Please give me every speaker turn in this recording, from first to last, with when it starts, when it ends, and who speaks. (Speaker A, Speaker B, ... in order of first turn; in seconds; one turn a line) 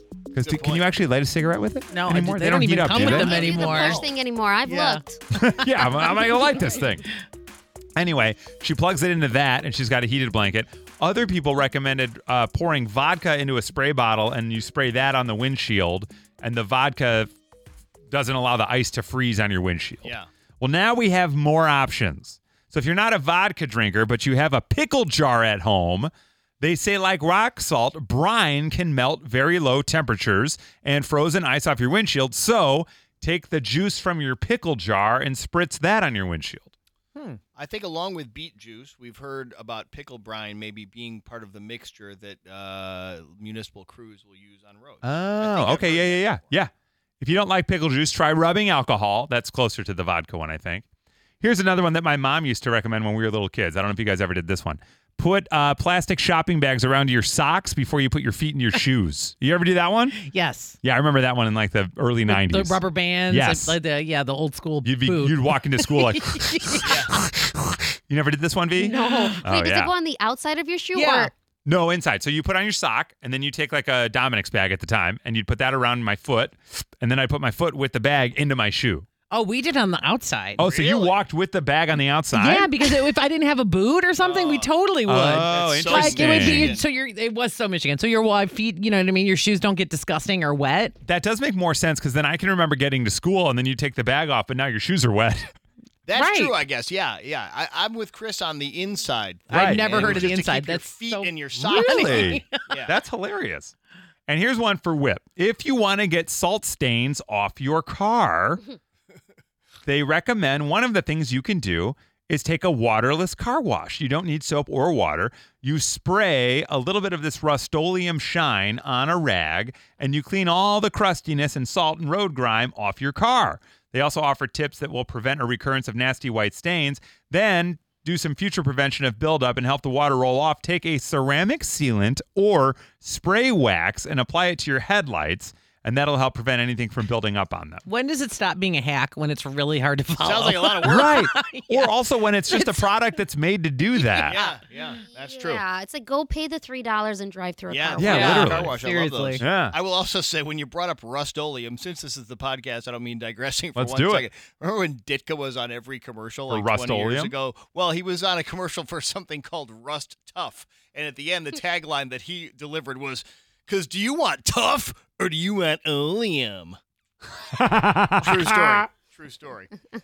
Speaker A: 0.3-3.5
Speaker B: 0.4-0.9
Speaker C: 1.9-4.0
Speaker D: 2.9-5.2
Speaker B: 3.1-4.1
Speaker C: 4.7-5.0
Speaker A: 5.3-7.1
Speaker C: 5.8-6.0
Speaker A: 8.0-17.3
Speaker A: 18.1-36.7
Speaker B: 37.5-46.5
Speaker A: 45.0-50.9
Speaker A: 51.4-60.3
Speaker C: 60.2-60.8
Speaker A: 60.8-63.8
Speaker C: 62.3-66.9
Speaker A: 64.8-69.9
Speaker B: 66.8-67.2
Speaker D: 68.8-71.3
Speaker C: 68.9-69.4
Speaker C: 71.0-71.3
Speaker A: 71.6-79.1
Speaker C: 79.3-80.6
Speaker A: 80.6-82.8
Speaker B: 80.6-81.2
Speaker C: 82.3-91.0
Speaker B: 84.2-84.7
Speaker A: 85.1-86.8
Speaker B: 85.5-86.9
Speaker A: 91.0-95.5
Speaker B: 96.1-103.0
Speaker C: 96.1-96.6
Speaker C: 99.5-102.7
Speaker A: 99.5-100.4
Speaker A: 101.6-103.7
Speaker A: 104.3-108.6
Speaker A: 109.9-137.8
Speaker C: 137.9-142.9
Speaker B: 140.2-141.3
Speaker A: 140.8-144.4
Speaker B: 144.2-145.6
Speaker D: 145.1-148.4
Speaker B: 147.7-166.8
Speaker A: 148.0-148.7
Speaker C: 148.0-149.4
Speaker A: 149.4-149.7
Speaker A: 153.8-154.3
Speaker A: 156.5-157.3
Speaker A: 167.5-168.8
Speaker B: 168.2-169.7